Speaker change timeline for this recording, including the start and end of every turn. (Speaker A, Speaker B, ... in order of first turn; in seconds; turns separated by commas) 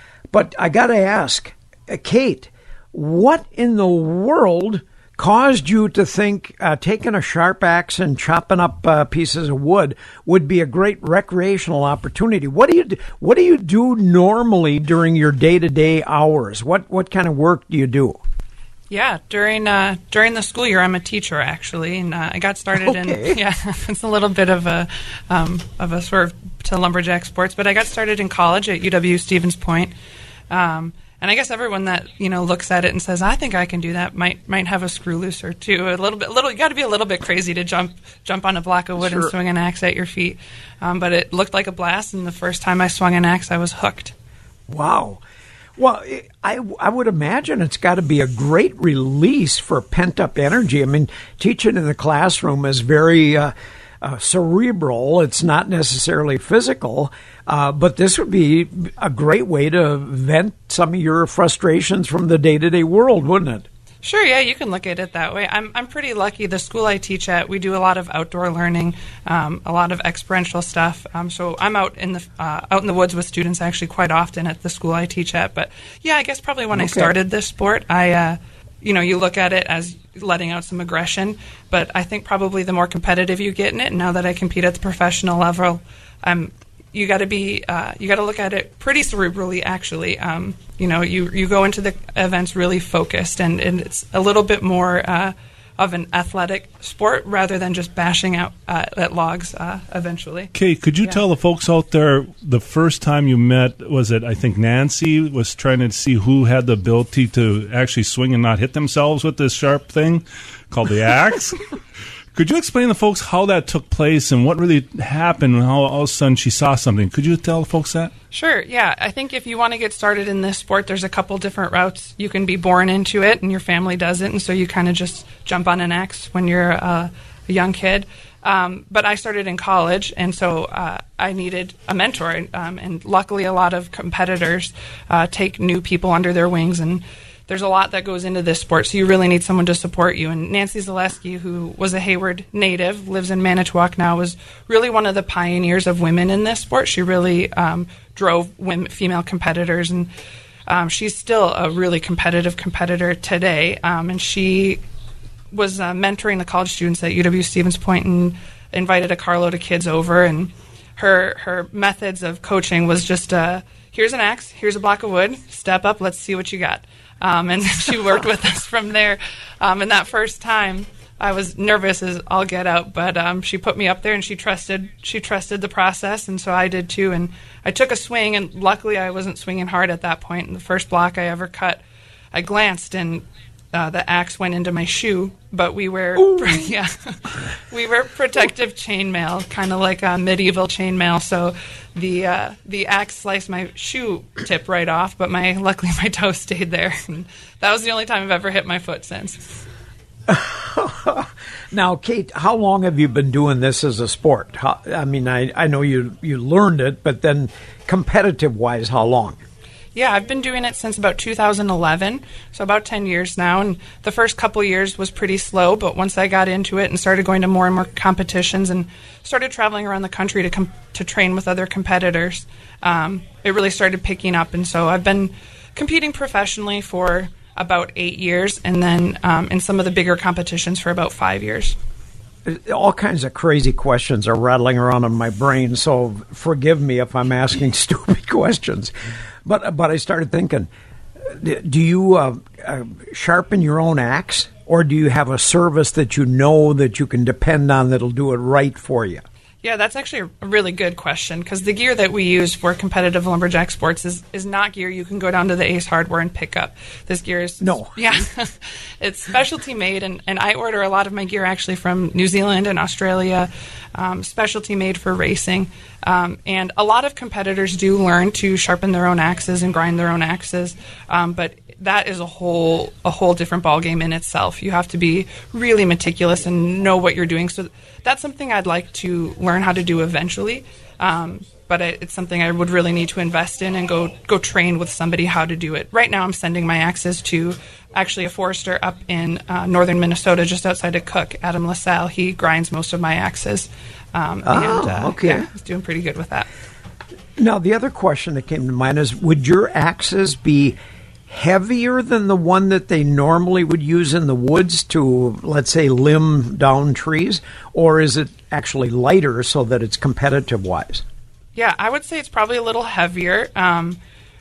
Speaker A: 0.3-18.2, Speaker B: 18.9-29.9, Speaker A: 22.8-23.4, Speaker B: 30.5-44.1, Speaker A: 39.0-39.3, Speaker A: 44.7-45.2, Speaker A: 45.8-63.7, Speaker B: 64.0-101.2, Speaker A: 76.7-77.1, Speaker C: 100.5-111.6, Speaker C: 112.3-118.1, Speaker B: 118.3-150.1, Speaker B: 150.7-154.8, Speaker B: 155.5-181.8, Speaker B: 182.3-199.6, Speaker A: 186.2-186.7, Speaker A: 200.3-209.4, Speaker B: 209.9-231.8, Speaker A: 232.5-238.9, Speaker A: 239.4-240.7, Speaker A: 241.3-249.2, Speaker B: 249.6-296.5, Speaker A: 257.6-258.0, Speaker A: 294.4-295.5, Speaker A: 297.4-300.8, Speaker A: 301.3-311.0, Speaker B: 311.6-314.0